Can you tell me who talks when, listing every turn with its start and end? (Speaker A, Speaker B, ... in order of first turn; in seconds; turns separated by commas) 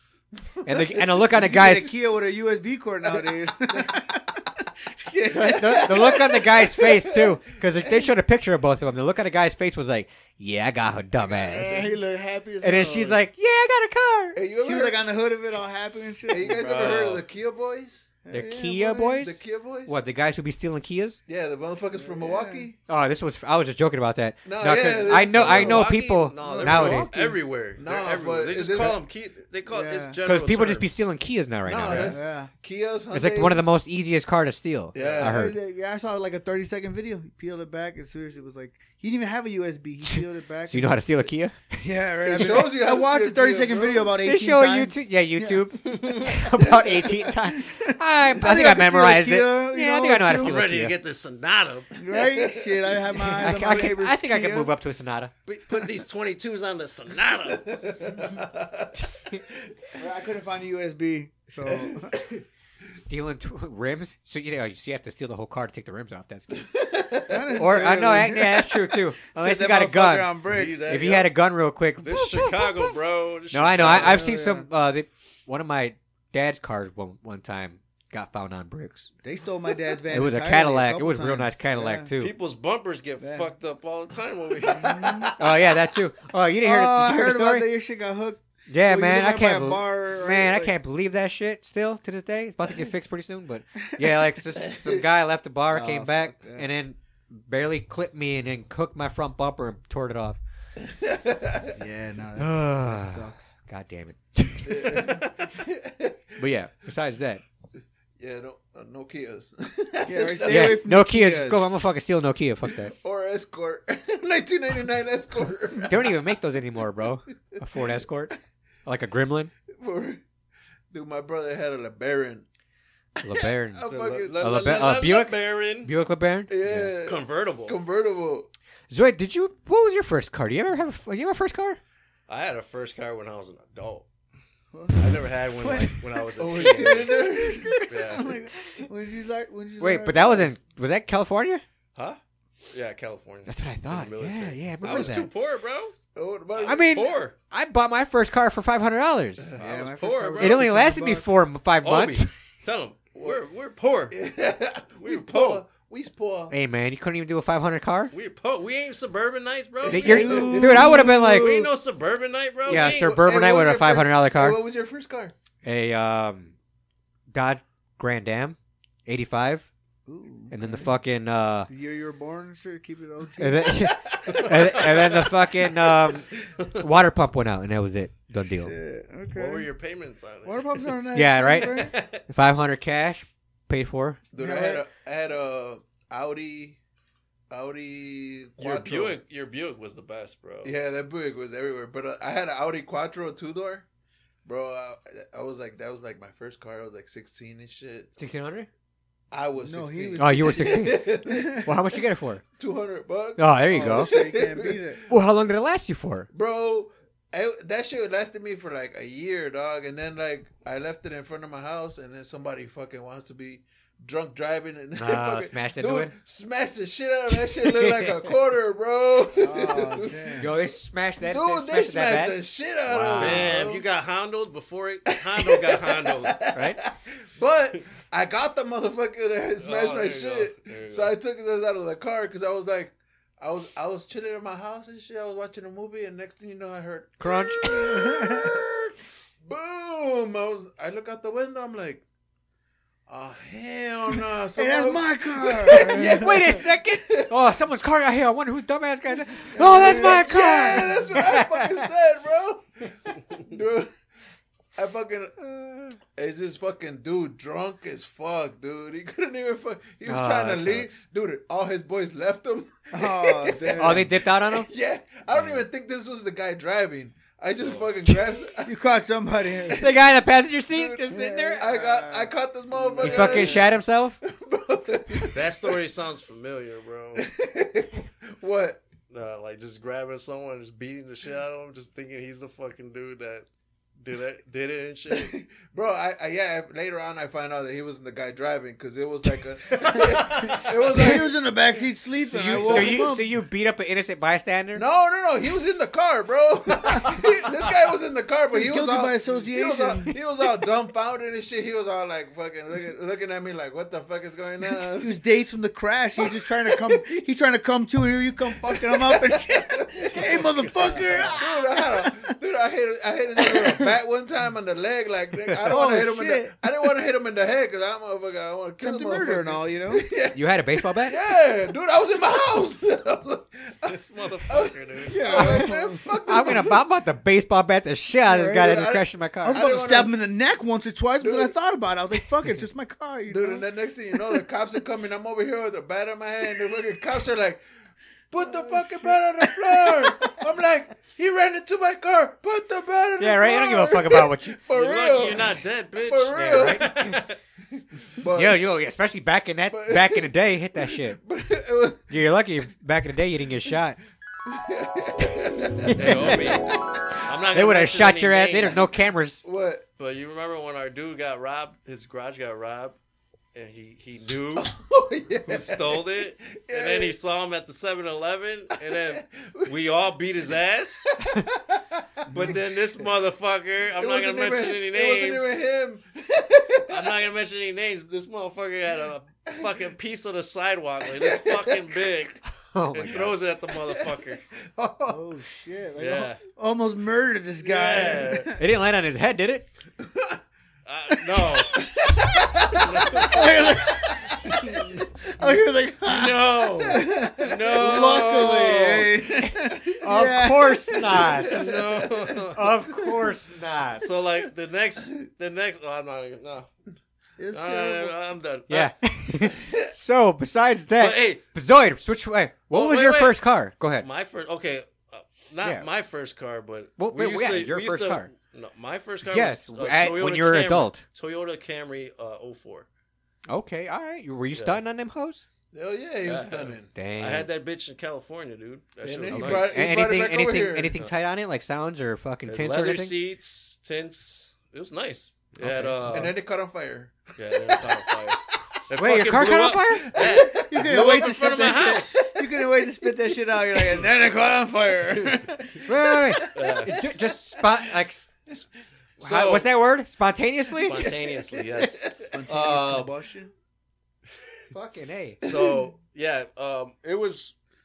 Speaker A: 0.7-1.9, Speaker B: 0.7-1.4, Speaker C: 1.3-6.2, Speaker B: 3.1-4.0, Speaker B: 5.2-7.3, Speaker A: 5.3-11.9, Speaker C: 11.3-13.2, Speaker A: 12.6-14.4, Speaker B: 14.3-15.0, Speaker C: 14.6-16.7, Speaker B: 16.3-18.1, Speaker D: 16.4-17.2, Speaker C: 18.2-19.2, Speaker A: 18.3-21.2, Speaker B: 19.1-20.0, Speaker B: 21.3-22.8, Speaker C: 21.9-22.7, Speaker A: 22.9-27.1, Speaker B: 24.4-25.9, Speaker D: 25.3-31.1, Speaker C: 26.4-27.4, Speaker B: 26.5-27.1, Speaker B: 27.8-29.0, Speaker C: 29.7-30.2, Speaker A: 30.2-32.2, Speaker B: 31.6-33.7, Speaker C: 31.9-32.5, Speaker A: 33.1-35.6, Speaker B: 34.9-35.5, Speaker D: 35.0-35.2, Speaker C: 35.2-41.0, Speaker A: 40.1-41.8, Speaker C: 41.8-46.3, Speaker B: 42.2-44.2, Speaker A: 44.2-51.0, Speaker C: 46.9-50.6, Speaker D: 50.4-51.9, Speaker C: 52.0-54.7, Speaker B: 52.1-53.0, Speaker A: 53.3-55.3, Speaker D: 55.5-58.3, Speaker B: 57.5-58.9, Speaker C: 60.0-62.2, Speaker B: 61.7-62.2, Speaker A: 62.9-66.6, Speaker B: 66.6-67.6, Speaker C: 67.3-71.0, Speaker A: 67.6-72.9, Speaker D: 70.5-71.3, Speaker D: 72.0-74.2, Speaker A: 73.5-79.1, Speaker C: 73.7-74.7, Speaker C: 79.2-82.1, Speaker A: 80.1-82.3, Speaker D: 82.2-85.3, Speaker C: 83.2-83.5, Speaker C: 84.7-85.3, Speaker A: 85.4-87.7, Speaker C: 86.6-90.8, Speaker A: 88.7-100.4, Speaker C: 95.7-96.7, Speaker B: 100.8-101.8, Speaker C: 101.8-103.5, Speaker A: 102.4-105.2, Speaker B: 104.7-106.4, Speaker A: 106.4-107.4, Speaker B: 108.2-110.9, Speaker C: 110.0-111.6, Speaker A: 110.5-112.9, Speaker B: 112.7-116.2, Speaker A: 115.9-119.5, Speaker B: 119.7-120.2, Speaker B: 120.9-122.5, Speaker A: 123.2-126.9, Speaker B: 123.7-124.6, Speaker D: 123.9-125.9, Speaker B: 126.5-128.5, Speaker D: 127.0-127.8, Speaker A: 128.9-131.8, Speaker D: 132.3-134.1, Speaker C: 134.7-140.5, Speaker D: 135.0-137.3, Speaker B: 136.4-138.2, Speaker D: 137.9-138.3, Speaker A: 139.8-141.6, Speaker D: 142.7-145.9, Speaker A: 143.5-145.3, Speaker B: 146.1-146.9, Speaker A: 146.6-149.5, Speaker D: 146.7-147.3, Speaker C: 149.6-151.3, Speaker D: 149.6-150.7, Speaker A: 150.4-152.3, Speaker D: 151.8-154.2, Speaker B: 154.1-156.6, Speaker D: 155.0-155.6, Speaker A: 156.5-158.1, Speaker D: 158.1-163.2, Speaker B: 159.8-161.1, Speaker A: 159.9-161.6, Speaker C: 159.9-161.7, Speaker A: 162.7-164.6, Speaker B: 162.7-165.3, Speaker A: 165.6-166.5, Speaker A: 167.3-169.7, Speaker C: 170.1-170.9, Speaker A: 170.5-171.7, Speaker C: 171.7-173.9, Speaker A: 173.4-178.7, Speaker B: 174.1-174.7, Speaker D: 174.3-175.3, Speaker C: 178.5-179.7, Speaker D: 179.3-180.9, Speaker C: 180.4-182.0, Speaker A: 181.1-184.2, Speaker D: 181.7-182.2, Speaker B: 184.3-186.8, Speaker C: 184.4-184.9, Speaker B: 187.5-189.2, Speaker D: 188.6-190.7, Speaker B: 190.6-193.9, Speaker B: 194.4-198.1, Speaker A: 198.2-198.7, Speaker B: 199.3-201.7, Speaker C: 199.6-201.7, Speaker A: 200.2-202.4, Speaker B: 202.6-205.0, Speaker A: 203.4-204.1, Speaker C: 203.7-205.0, Speaker A: 205.1-206.3, Speaker B: 206.3-220.5, Speaker A: 215.0-216.1, Speaker A: 217.3-218.3, Speaker C: 219.3-220.5, Speaker A: 220.4-223.6, Speaker B: 221.2-223.8, Speaker D: 223.1-226.4, Speaker B: 225.2-238.9, Speaker A: 226.5-226.8, Speaker D: 229.6-231.2, Speaker A: 237.2-237.8, Speaker C: 237.7-238.6, Speaker B: 239.5-242.0, Speaker B: 243.1-247.3, Speaker C: 244.5-246.5, Speaker A: 245.7-251.8, Speaker B: 249.6-253.9, Speaker C: 249.6-250.7, Speaker B: 254.8-268.7, Speaker A: 255.6-255.9, Speaker A: 260.1-260.9, Speaker C: 262.9-264.1, Speaker A: 263.8-264.7, Speaker A: 265.4-265.6, Speaker D: 267.6-267.9, Speaker C: 268.6-269.9, Speaker A: 269.8-271.6, Speaker B: 270.7-275.8, Speaker C: 271.1-273.6, Speaker A: 273.0-274.2, Speaker D: 275.3-277.3, Speaker B: 277.2-278.8, Speaker D: 279.1-283.5, Speaker D: 284.0-285.4, Speaker B: 285.1-291.6, Speaker D: 290.0-290.5, Speaker C: 290.1-293.4, Speaker B: 292.2-293.1, Speaker A: 292.3-294.9, Speaker B: 294.8-305.2, Speaker C: 298.5-300.2, Speaker C: 305.0-312.3, Speaker B: 306.7-307.1, Speaker B: 308.6-310.4, Speaker D: 310.1-311.4, Speaker B: 311.1-323.9, Speaker C: 313.4-313.9, Speaker C: 315.6-316.6, Speaker C: 318.8-320.1, Speaker A: 320.3-321.1, Speaker D: 323.9-325.6, Speaker B: 324.5-326.8, Speaker C: 325.1-326.1, Speaker A: 326.2-329.6, Speaker C: 328.3-328.9, Speaker B: 328.3-330.1, Speaker C: 329.4-334.4, Speaker B: 331.2-331.5, Speaker B: 333.3-337.6, Speaker B: 338.3-347.1, Speaker C: 338.4-340.4, Speaker A: 343.2-344.6, Speaker D: 344.7-347.4, Speaker A: 346.4-347.2, Speaker B: 347.7-348.6, Speaker A: 348.3-351.2, Speaker B: 349.7-352.1, Speaker A: 352.1-354.0, Speaker B: 354.5-356.6, Speaker A: 355.8-356.7, Speaker D: 356.0-358.8, Speaker A: 357.5-359.4, Speaker B: 359.4-359.9, Speaker D: 360.0-363.0, Speaker D: 363.5-364.7, Speaker B: 364.5-367.1, Speaker D: 365.5-371.1, Speaker B: 368.9-369.7, Speaker B: 371.2-373.0, Speaker D: 372.3-375.6, Speaker B: 374.0-377.2, Speaker D: 376.9-382.4, Speaker B: 381.1-382.0, Speaker A: 382.7-383.3, Speaker D: 382.9-384.4, Speaker B: 383.1-384.2, Speaker B: 384.8-385.2, Speaker C: 385.1-388.6, Speaker D: 386.0-386.4, Speaker D: 387.6-388.5, Speaker A: 388.6-389.7, Speaker D: 390.9-392.0, Speaker B: 391.7-393.9, Speaker D: 392.6-393.8, Speaker C: 392.6-401.4, Speaker B: 394.4-394.7, Speaker D: 396.1-399.2, Speaker B: 396.9-398.5, Speaker A: 400.0-401.6, Speaker B: 401.1-402.4, Speaker D: 401.4-402.7, Speaker A: 402.5-404.1, Speaker D: 404.0-406.7, Speaker C: 407.4-408.1, Speaker D: 407.5-408.9, Speaker A: 408.7-414.1, Speaker D: 411.0-411.4, Speaker D: 412.7-413.4, Speaker D: 414.0-422.9, Speaker A: 417.0-418.3, Speaker A: 419.3-421.0, Speaker A: 423.5-425.4, Speaker D: 424.5-424.8, Speaker B: 425.7-426.9, Speaker D: 426.2-429.9, Speaker A: 426.9-427.5, Speaker B: 429.0-431.1, Speaker A: 429.3-433.1, Speaker D: 432.5-436.4, Speaker A: 435.6-436.0, Speaker B: 436.1-437.9, Speaker D: 437.4-442.3, Speaker A: 439.0-440.1, Speaker B: 440.1-442.0, Speaker C: 440.2-445.9, Speaker A: 445.9-448.3, Speaker B: 446.4-446.9, Speaker D: 446.6-446.9, Speaker D: 449.2-449.7, Speaker A: 449.2-451.1, Speaker D: 450.7-453.1, Speaker B: 451.0-452.0, Speaker C: 452.3-453.5, Speaker A: 454.7-455.4, Speaker D: 455.4-457.5, Speaker B: 455.4-455.8